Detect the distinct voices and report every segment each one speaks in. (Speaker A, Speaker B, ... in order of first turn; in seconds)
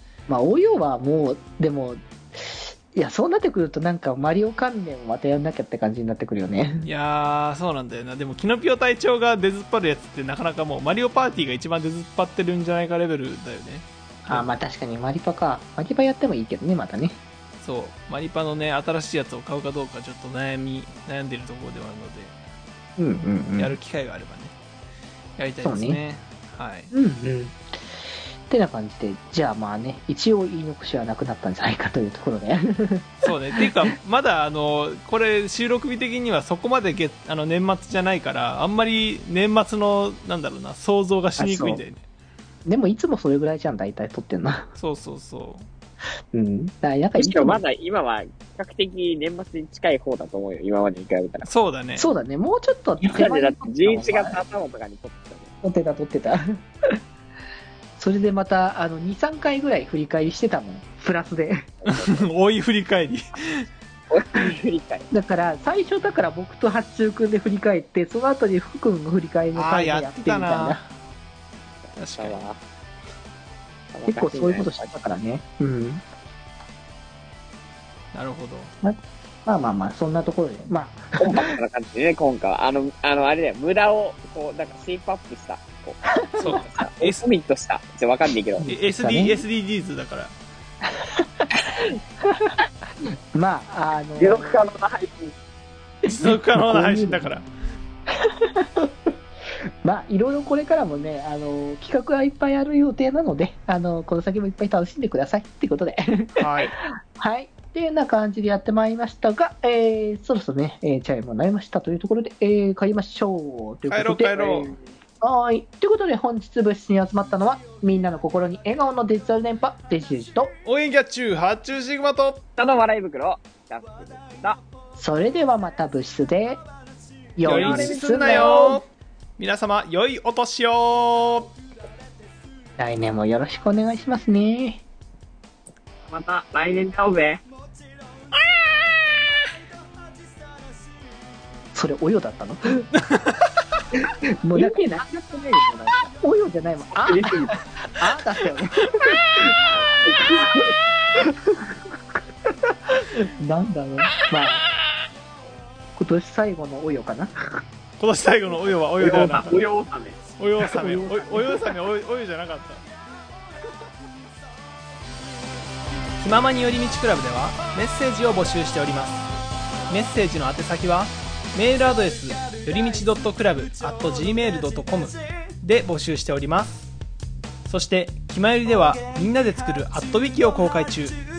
Speaker A: 0.3-6.9, 14.3-17.2, 23.0-23.8, 25.6-26.0, 26.9-33.7, 41.4-41.8, 42.6-44.7, 46.3-47.6, 52.0-54.4, 55.6-56.4, 58.0-61.7, 65.1-70.8, 74.1-76.0, 78.8-81.5, 86.3-86.6, 88.6-89.4, 91.0-91.5, 92.2-92.5, 93.3-94.6, 96.1-97.3, 98.3-98.9, 99.8-120.5, 125.0-126.6, 127.3-128.8, 132.8-134.8, 141.7-142.8, 144.4-145.1, 146.2-150.5, 151.3-151.6, 152.9-154.6, 155.9-157.3, 160.6-161.6
Speaker B: 6.8-14.5, 17.6-22.4, 23.6-24.5, 25.4-26.9, 33.2-42.0, 44.8-45.7, 51.4-52.1, 61.9-63.6, 69.5-70.9, 72.0-72.4, 78.1-78.7, 86.4-87.2, 88.7-90.3, 96.0-97.5, 106.4-106.8, 113.9-114.7, 120.6-122.4, 127.4-131.5, 143.0-143.4, 158.0-159.6, 160.4-162.8, 166.2-169.2, 169.9-176.9, 177.6-181.2
Speaker C: 47.1-51.5, 53.0-55.5, 61.8-62.3, 64.1-65.1, 71.9-72.6, 73.9-74.9, 81.2-88.7, 94.2-95.3, 122.5-124.6, 127.6-127.9, 136.1-137.4, 144.5-146.1, 146.9-147.6, 149.9-150.7, 159.0-160.2